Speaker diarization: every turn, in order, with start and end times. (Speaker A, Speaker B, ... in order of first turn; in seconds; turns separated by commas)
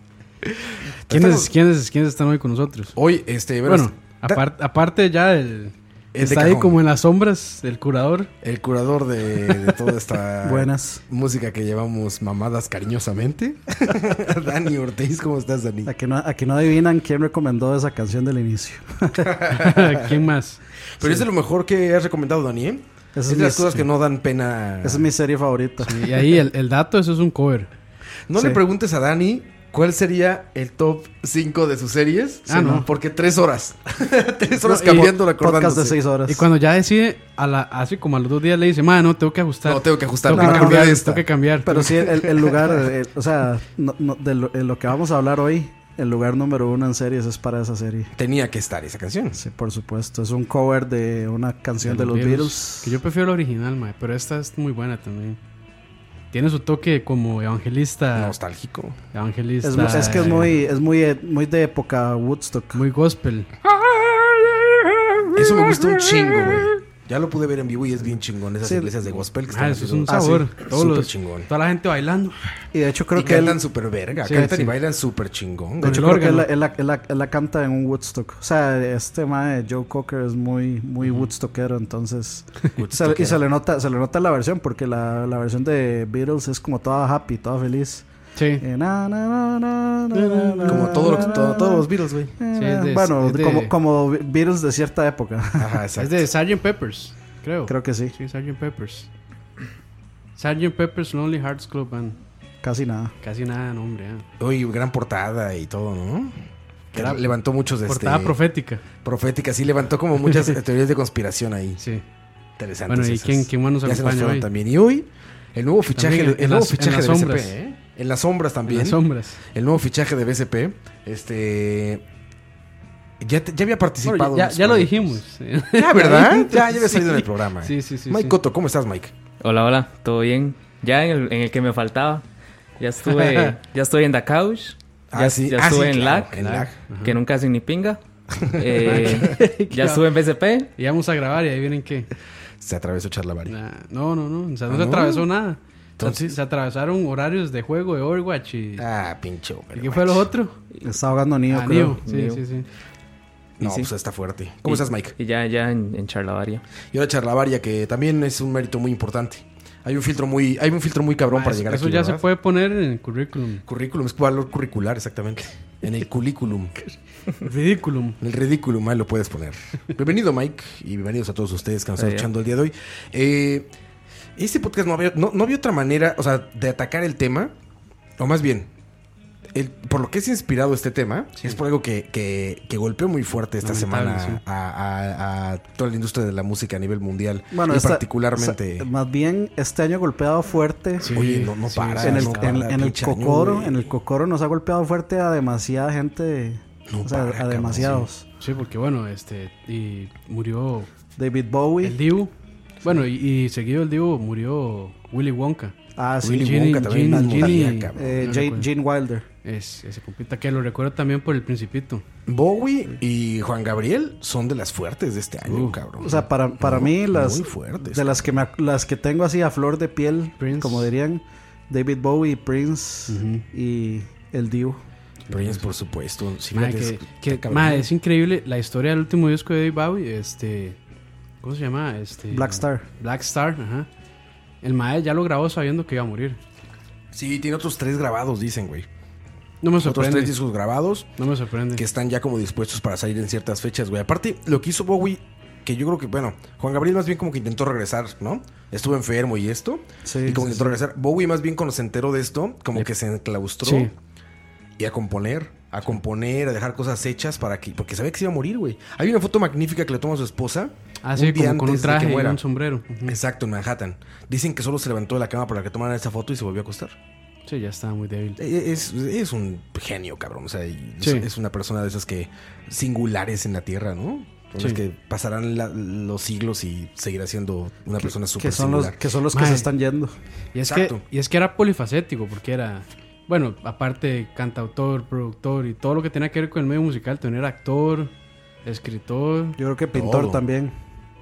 Speaker A: 0.5-1.5, Speaker B: 1.1-3.0, Speaker A: 3.0-4.4, Speaker B: 3.6-8.3, Speaker A: 6.1-6.8, Speaker A: 8.4-15.9, Speaker C: 10.4-11.0, Speaker C: 15.8-19.4, Speaker A: 19.2-20.0, Speaker B: 19.5-21.2, Speaker A: 21.0-25.1, Speaker C: 23.1-23.8, Speaker C: 24.8-26.0, Speaker B: 25.8-27.7, Speaker A: 28.3-36.0, Speaker C: 28.4-28.6, Speaker B: 32.5-32.9, Speaker B: 34.6-35.1, Speaker C: 34.8-36.5, Speaker B: 36.3-41.9, Speaker A: 39.6-41.2, Speaker C: 40.3-41.0, Speaker C: 41.6-48.1, Speaker A: 41.9-42.8, Speaker A: 48.1-49.4, Speaker C: 49.3-53.0, Speaker B: 51.8-55.4, Speaker B: 56.3-58.3, Speaker A: 58.1-59.0, Speaker B: 59.1-60.6, Speaker C: 59.6-62.8, Speaker B: 62.7-63.5, Speaker A: 65.3-71.5, Speaker C: 68.6-68.9, Speaker B: 69.5-72.4, Speaker C: 70.1-70.5, Speaker C: 72.7-73.6, Speaker A: 73.2-76.2, Speaker C: 74.2-74.7, Speaker B: 74.2-74.7, Speaker C: 75.8-88.0, Speaker B: 75.8-76.5, Speaker B: 81.0-81.3, Speaker A: 82.8-83.4, Speaker B: 88.3-88.6, Speaker C: 88.6-95.8, Speaker B: 90.1-91.4, Speaker A: 90.7-92.3, Speaker B: 92.5-93.7, Speaker A: 95.6-96.2, Speaker B: 96.0-99.1, Speaker C: 97.7-98.1, Speaker B: 100.3-102.2, Speaker C: 102.6-103.1, Speaker B: 103.2-104.2, Speaker A: 104.4-108.4, Speaker B: 106.9-107.3, Speaker B: 107.8-108.8, Speaker A: 109.0-111.8, Speaker B: 111.8-112.0, Speaker A: 112.6-122.0, Speaker B: 112.9-114.5, Speaker B: 115.9-117.5, Speaker B: 118.7-119.4, Speaker A: 123.2-125.0, Speaker B: 124.0-128.3, Speaker A: 125.7-129.1, Speaker D: 129.4-132.2, Speaker D: 132.8-140.7, Speaker B: 133.0-133.5, Speaker A: 135.1-136.8, Speaker B: 136.8-137.2, Speaker A: 138.4-139.3, Speaker B: 138.8-140.1, Speaker B: 140.8-142.1, Speaker A: 142.6-143.5, Speaker B: 143.5-148.8, Speaker A: 144.7-145.3, Speaker A: 146.0-146.4, Speaker A: 148.8-150.3, Speaker B: 149.8-150.5, Speaker C: 150.8-152.0, Speaker B: 151.5-152.7, Speaker D: 152.1-152.4, Speaker D: 153.6-153.9, Speaker A: 153.6-155.1, Speaker D: 154.7-156.6, Speaker A: 156.9-162.2, Speaker B: 161.3-163.6, Speaker A: 163.7-166.8, Speaker B: 167.4-168.2, Speaker A: 168.2-173.7, Speaker D: 172.0-172.3, Speaker A: 174.3-177.5, Speaker A: 178.2-178.7, Speaker A: 179.5-188.9, Speaker B: 183.6-184.4, Speaker C: 187.5-191.2, Speaker B: 191.0-192.6, Speaker A: 191.1-193.9, Speaker C: 192.0-198.2, Speaker A: 196.9-198.0, Speaker B: 197.8-200.9, Speaker C: 201.2-202.0, Speaker B: 201.8-202.3, Speaker B: 202.8-205.7, Speaker C: 205.9-209.2, Speaker A: 206.2-208.3, Speaker B: 206.3-208.7, Speaker B: 209.4-212.0, Speaker A: 212.3-218.2, Speaker B: 215.4-215.8, Speaker C: 216.0-224.8, Speaker B: 220.4-220.9, Speaker B: 223.1-223.4, Speaker B: 225.3-225.7, Speaker A: 225.3-227.9, Speaker B: 226.5-230.8, Speaker B: 231.4-233.9, Speaker C: 232.3-232.8, Speaker B: 234.6-236.4, Speaker A: 237.1-238.9, Speaker B: 239.6-240.3, Speaker A: 239.8-241.1, Speaker B: 241.2-241.8, Speaker A: 241.8-253.9, Speaker C: 250.0-250.7, Speaker B: 253.6-253.9, Speaker A: 254.8-262.4, Speaker B: 261.0-263.2, Speaker A: 263.0-266.9, Speaker B: 267.5-268.4, Speaker A: 268.4-278.9, Speaker B: 271.0-271.3, Speaker C: 278.0-280.1, Speaker B: 279.3-279.7, Speaker B: 280.5-288.1, Speaker A: 280.6-281.0, Speaker B: 288.6-289.6, Speaker C: 289.6-290.7, Speaker A: 289.9-290.4